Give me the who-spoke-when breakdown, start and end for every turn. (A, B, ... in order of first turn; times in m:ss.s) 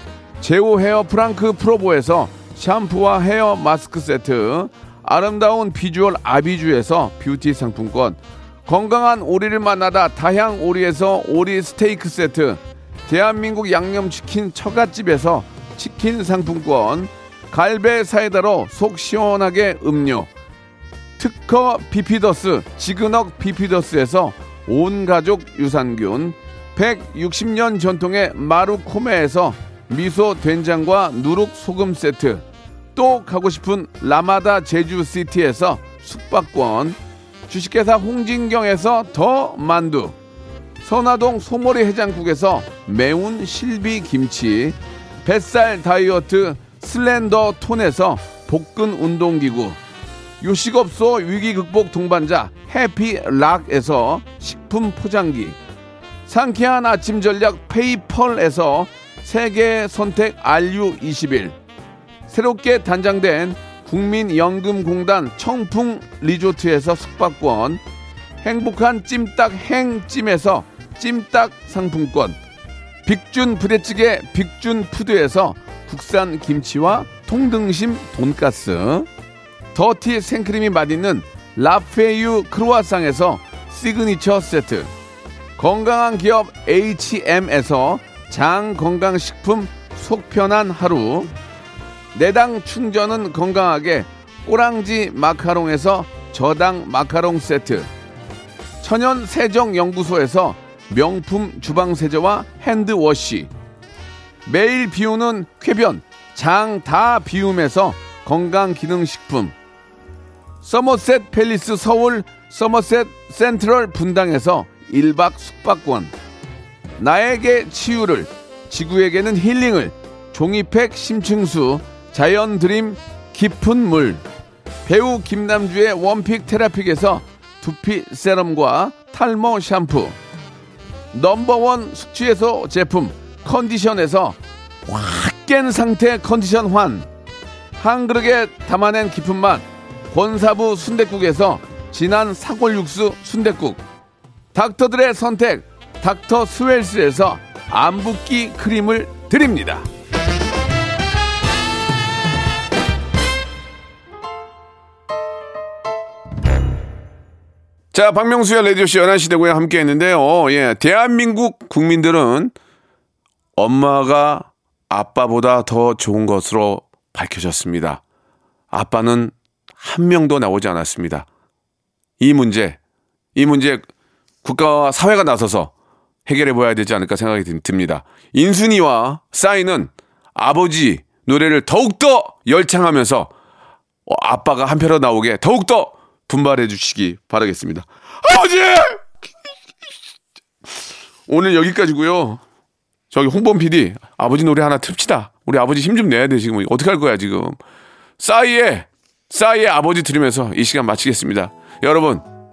0:00.4-0:20.3 A
0:21.2-0:32.4 A
0:33.0-0:40.2 A
0:40.8-0:49.8 A
0:50.4-0:55.6 A
0:56.3-1:01.6 A
1:02.3-1:07.8 A
1:08.4-1:12.4 A
1:13.1-1:19.1 A
1:19.7-1:24.9 A
1:25.6-1:31.3 A
1:32.1-1:37.9 A
1:38.8-1:43.5 A
1:44.4-1:49.6 A
1:50.6-1:56.1 A
1:57.0-2:04.2 A
2:04.9-2:10.2 A
2:11.1-2:17.1 A
2:17.8-2:23.8 A
2:24.5-2:29.9 A
2:37.9-2:42.6 A
2:43.6-2:48.0 A
2:48.7-2:51.3 A
2:52.2-2:52.8 A
2:53.4-2:53.8 A
2:54.4-2:55.7 A
2:56.3-3:03.3 A
3:04.1-3:09.2 A
3:11.3-3:12.4 A
3:13.1-3:17.6 A
3:18.2-3:22.2 A